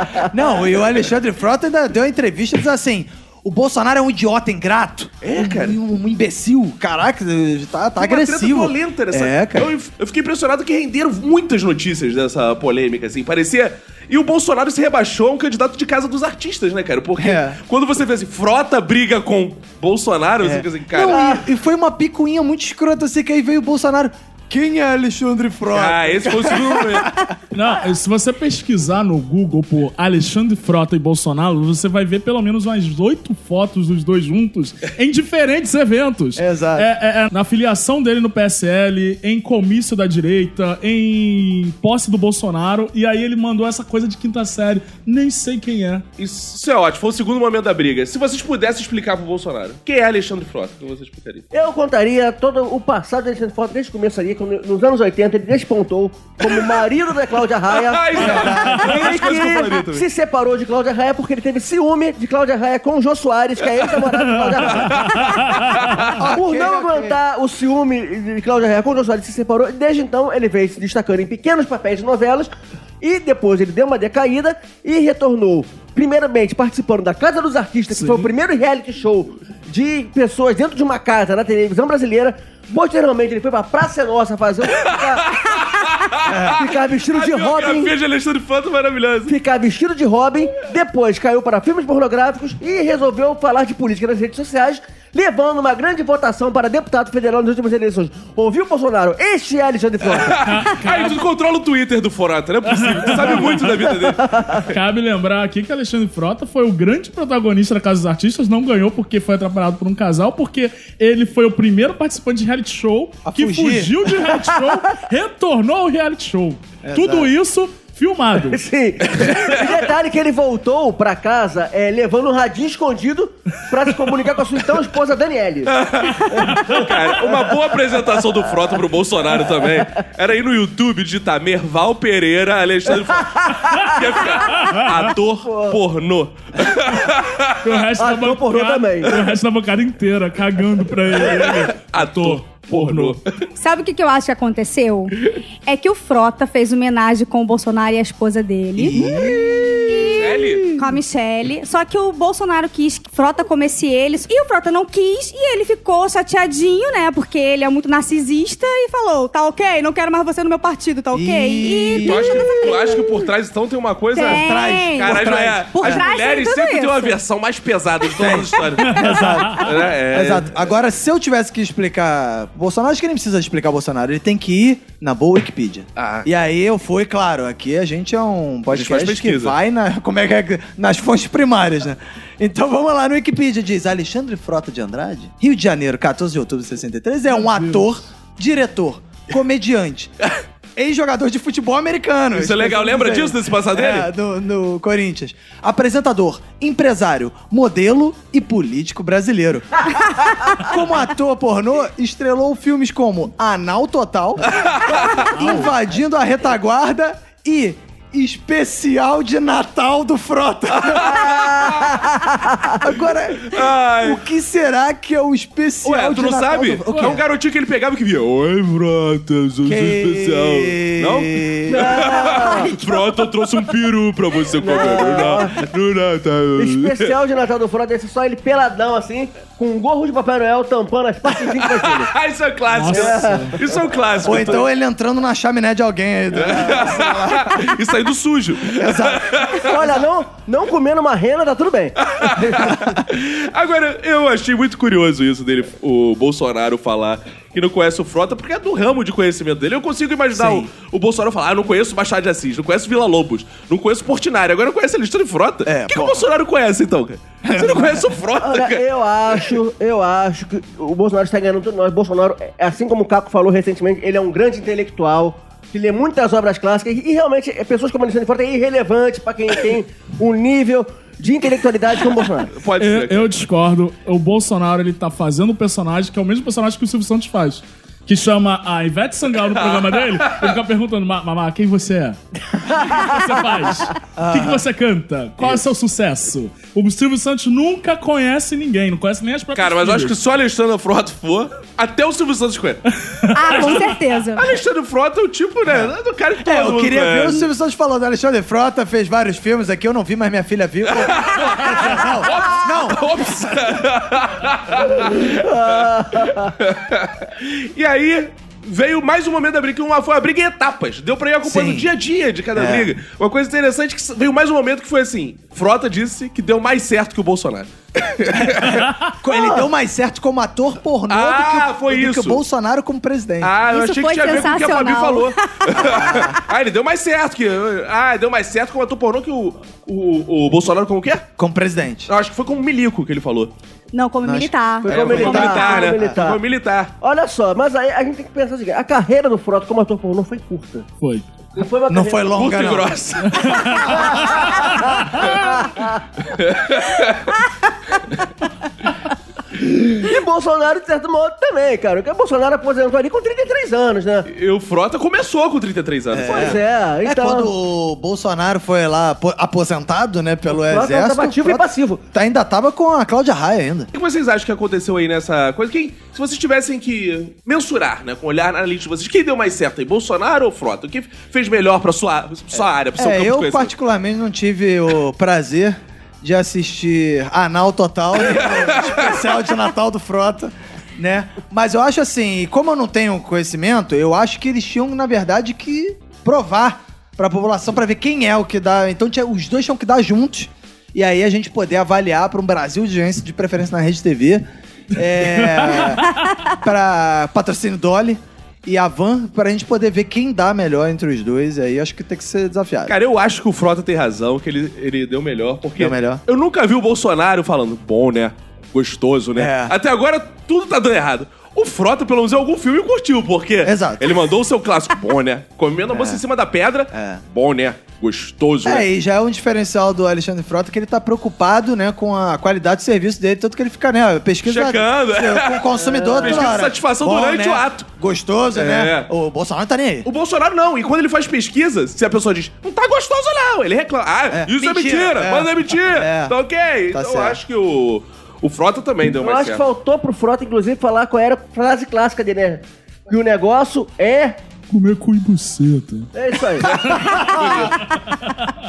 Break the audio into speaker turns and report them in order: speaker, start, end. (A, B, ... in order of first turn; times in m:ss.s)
0:00.2-0:09.7 A
0:05.2-0:05.8 B
0:08.0-0:21.4 B
0:17.2-0:17.6 A
0:20.4-0:27.4 A
0:21.1-0:21.4 C
0:25.7-0:27.2 B
0:27.5-0:46.0 D
0:36.4-0:36.9 A
0:46.2-0:51.5 B
0:51.5-1:05.4 C
0:57.7-1:00.1 B
0:58.2-0:59.0 A
1:04.5-1:05.6 D
1:04.7-1:06.2 B
1:06.1-1:07.2 A
1:06.2-1:25.3 C
1:24.7-1:29.3 B
1:26.2-1:26.6 A
1:26.5-1:27.9 C
1:29.3-1:40.4 C
1:40.1-1:44.8 B
1:40.4-1:41.2 D
1:42.7-1:43.8 D
1:43.9-1:44.6 C
1:44.6-1:58.6 D
1:53.2-1:53.9 A
1:56.8-1:57.3 A
1:58.5-2:08.8 C
1:59.1-1:59.6 B
2:05.7-2:17.7 B
2:09.3-2:09.9 C
2:12.9-2:14.3 C
2:14.6-2:14.9 D
2:15.4-2:15.8 C
2:17.6-2:23.2 D
2:18.0-2:19.1 C
2:21.2-2:23.4 B
2:23.6-2:43.1 E
2:28.8-2:30.3 A
2:30.0-2:30.8 B
2:41.1-2:42.5 A
2:42.0-2:50.7 B
2:44.2-2:47.2 E
2:44.2-2:46.0 A
2:48.2-3:10.1 A
2:48.8-2:49.6 D
2:56.0-2:56.3 B
2:58.7-2:59.6 B
3:07.4-3:07.8 D
3:10.8-3:19.9 A
3:12.3-3:14.1 B
3:20.5-3:31.2 A
3:24.5-3:25.3 B
3:25.3-3:25.7 D
3:30.7-3:32.1 B
3:31.1-3:32.8 C
3:32.7-3:37.2 A
3:33.4-3:34.2 B
3:35.8-3:47.1 B
3:39.7-3:42.1 A
3:41.7-3:42.7 C
3:44.6-3:45.6 C
3:46.6-3:52.1 C
3:51.6-3:54.7 B
3:52.7-3:53.6 D
3:52.9-3:53.8 C
3:54.2-3:57.7 A
3:56.3-3:59.9 B
3:58.7-3:59.7 A
3:59.6-4:02.9 C
4:02.0-4:19.5 B
4:10.4-4:10.7 A
4:15.6-4:16.3 A
4:17.4-4:18.1 A
4:18.4-4:32.5 C
4:32.5-4:33.3 B
4:32.8-4:50.2 D
4:39.4-4:40.5 B
4:44.2-4:44.6 A
4:49.6-4:52.8 B
4:53.0-4:54.0 D
4:53.3-4:54.6 E
4:53.5-4:57.5 B
4:56.4-5:03.7 A
5:00.9-5:18.9 B
5:04.9-5:06.5 C
5:11.4-5:11.9 A
5:12.6-5:12.9 A
5:18.3-5:23.6 A
5:21.1-5:22.4 B
5:23.4-5:31.3 B
5:23.7-5:26.3 E
5:25.8-5:26.4 A
5:31.4-5:32.1 A
5:32.1-5:33.5 B
5:33.9-5:35.8 E
5:34.2-5:36.2 A
5:34.8-5:36.4 C
5:34.9-5:36.9 B
5:37.0-5:40.9 C
5:41.0-5:41.3 D
5:41.5-5:42.5 C
5:41.9-5:43.0 A
5:42.4-5:44.6 B
5:43.2-5:45.3 D
5:43.8-5:46.0 C
5:46.2-5:47.4 B
5:49.5-5:54.3 C
5:54.3-5:56.6 B
5:56.1-6:03.9 A
5:56.3-5:57.5 C
6:00.5-6:02.0 C
6:03.9-6:13.7 B
6:13.0-6:43.0 A
6:18.3-6:19.2 B
6:35.6-6:36.0 D
6:42.9-6:58.9 B
6:45.8-6:46.2 A
6:49.4-6:49.8 A
6:53.6-6:54.2 A
6:55.9-6:56.2 A
6:56.9-6:57.2 A
6:58.6-7:10.1 A
7:04.4-7:07.9 B
7:05.8-7:06.6 C
7:08.6-7:09.1 B
7:10.0-7:19.6 B
7:14.3-7:16.4 A
7:16.9-7:17.4 A
7:19.2-7:24.4 C
7:24.7-7:26.1 D
7:26.2-7:27.0 C
7:26.6-7:27.2 D
7:26.6-7:27.8 B
7:27.0-7:27.5 A
7:27.8-7:28.6 D